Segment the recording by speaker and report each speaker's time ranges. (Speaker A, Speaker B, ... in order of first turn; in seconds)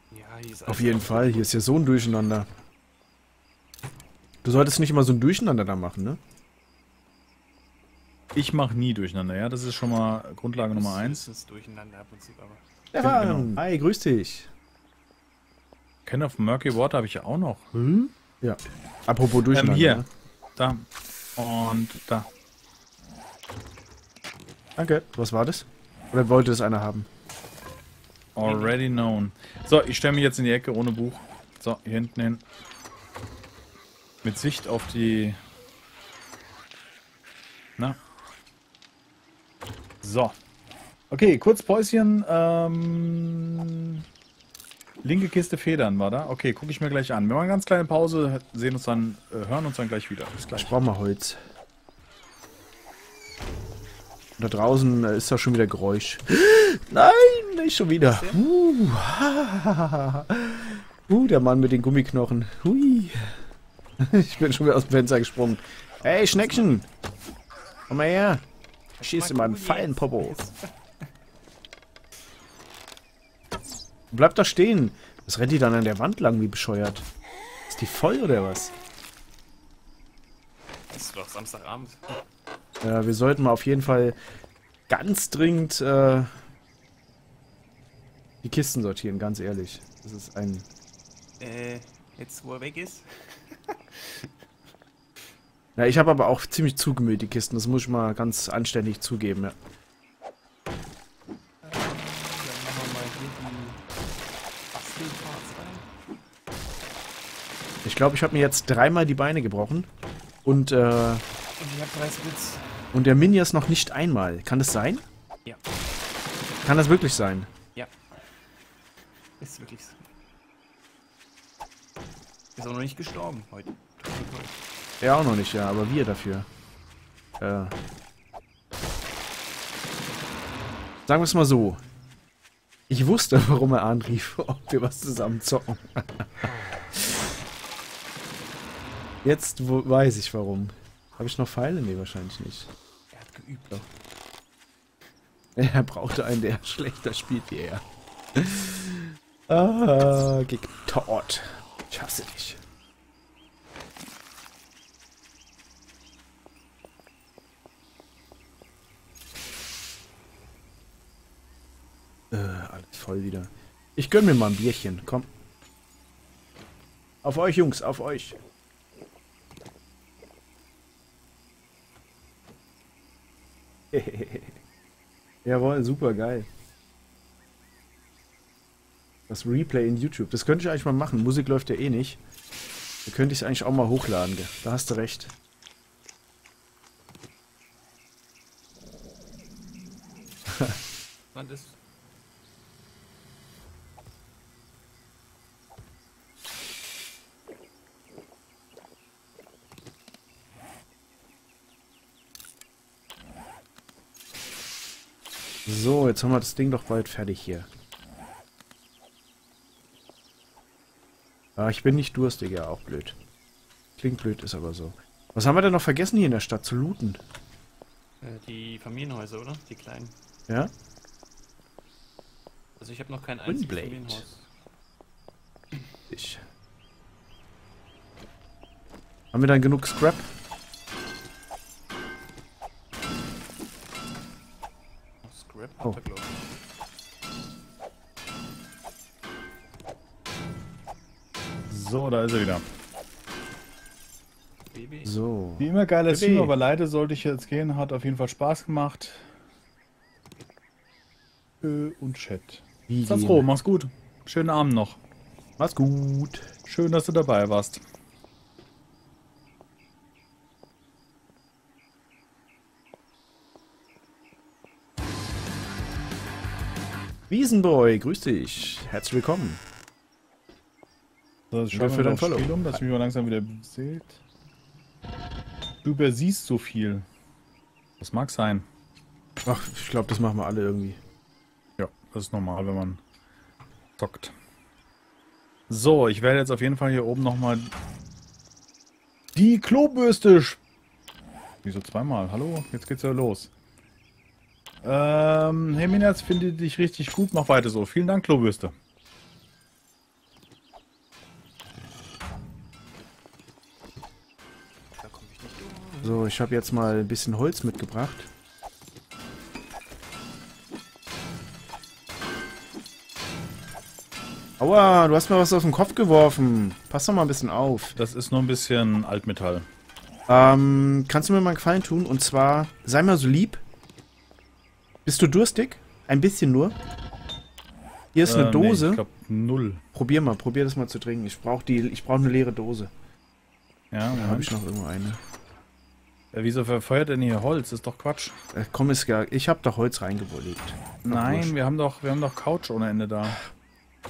Speaker A: 0.1-1.6, 10.7-12.6, 28.4-28.8, 58.0-58.4, 66.0-66.6, 68.9-71.0, 80.9-82.2, 91.4-94.3, 101.6-103.8, 104.7-105.9, 111.6-112.9, 117.7-118.3, 119.4-120.0, 122.5-124.5, 143.1-143.8, 191.3-191.8, 218.2-220.1, 222.8-224.5, 235.2-236.4, 244.7-245.1, 305.0-306.7
Speaker B: 0.7-2.5, 4.4-6.2, 12.9-14.5, 18.4-20.1, 24.8-27.1, 50.4-51.4, 54.4-63.4, 64.0-66.8, 67.9-68.4, 69.0-70.4, 74.1-77.1, 77.7-78.7, 82.8-84.2, 84.9-86.3, 88.4-90.7, 95.8-99.5, 107.8-109.9, 110.4-111.2, 112.9-115.0, 116.6-117.5, 125.0-126.5, 127.4-127.7, 131.1-131.8, 132.9-137.2, 139.2-142.7, 145.6-147.8, 148.3-152.6, 162.3-165.3, 167.2-168.4, 173.9-174.6, 175.4-176.5, 179.3-182.2, 183.1-185.3, 190.5-190.8, 205.7-207.7, 211.6-213.2, 214.0-217.2, 223.4-224.3, 226.1-226.4, 229.3-230.3, 245.0-246.5, 252.9-253.5, 255.6-256.5, 267.3-269.6, 271.7-272.8, 279.4-281.0, 306.0-308.3, 314.6-318.0, 320.3-323.6, 325.1-326.8, 328.1-329.0, 329.9-332.9, 334.1-335.2, 338.5-341.6
Speaker C: 8.3-11.2, 13.0-13.6, 16.1-18.1, 19.5-20.0, 20.6-22.3, 28.3-32.4, 34.2-35.4, 40.0-40.3, 41.1-44.0, 45.0-50.6, 241.7-242.6, 245.6-249.2, 251.6-255.0, 256.7-257.8, 271.5-274.2, 275.8-277.1, 278.0-278.6, 281.8-283.0, 284.0-284.3, 285.7-287.7, 289.3-290.6, 291.6-293.5, 294.8-298.7, 318.0-319.6, 328.2-329.8, 333.9-334.5, 336.3-338.4, 341.1-343.4